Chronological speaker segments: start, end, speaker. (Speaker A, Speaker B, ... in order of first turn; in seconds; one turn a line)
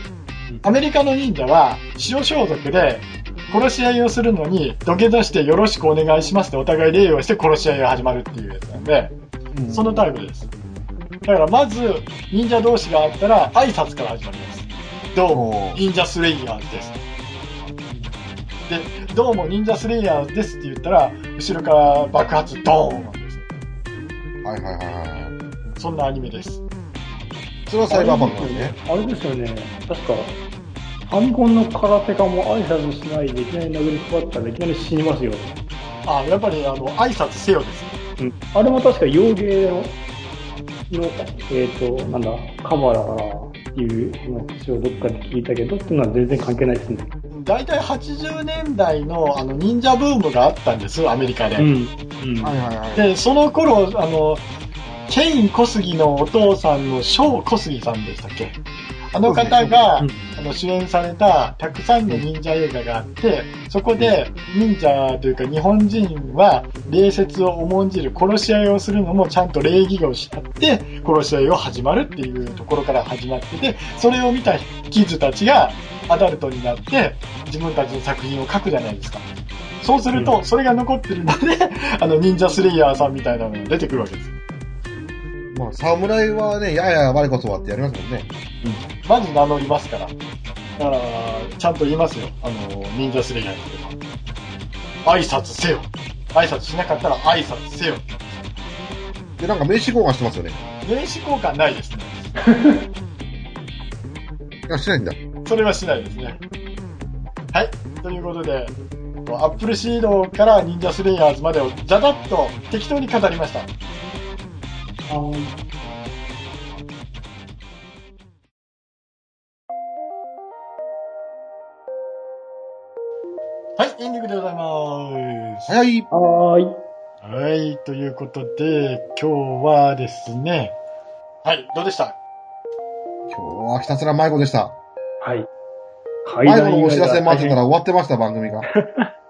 Speaker A: 0.6-9.1
Speaker B: 9.5-10.1
Speaker A: 9.7-10.5
Speaker A: 11.2-17.0
Speaker B: 15.3-15.8
Speaker C: 17.9-18.1
Speaker A: 18.7-23.5
Speaker B: 24.4-25.4
Speaker A: 25.8-26.6
Speaker B: 27.7-28.8
Speaker C: 27.9-30.4
Speaker C: 31.1-35.6
Speaker A: 36.0-37.9
Speaker C: 38.2-40.0
Speaker C: 40.9-47.1
Speaker A: 47.3-51.7
Speaker C: 51.6-52.5
Speaker B: 52.4-53.1
Speaker A: 53.0-54.4
Speaker A: 55.1-58.6
Speaker A: 59.1-79.3
Speaker B: 59.2-59.9
Speaker A: 79.8-84.4
Speaker C: 80.1-80.4
Speaker B: 85.5-88.3
Speaker A: 89.0-90.1
Speaker A: 90.8-94.0
Speaker A: 95.0-98.2
Speaker B: 99.4-100.6
Speaker A: 100.8-102.2
Speaker C: 102.5-102.8
Speaker B: 104.7-105.2
Speaker A: 105.5-106.4
Speaker A: 107.5-113.7
Speaker C: 115.1-115.5
Speaker A: 123.8-125.7
Speaker B: 125.7-126.1
Speaker C: 126.1-126.8
Speaker A: 127.2-130.8
Speaker A: 131.4-132.2
Speaker B: 133.3-134.8
Speaker C: 135.2-135.5
Speaker C: 136.2-137.6
Speaker B: 136.4-138.7
Speaker C: 138.7-139.1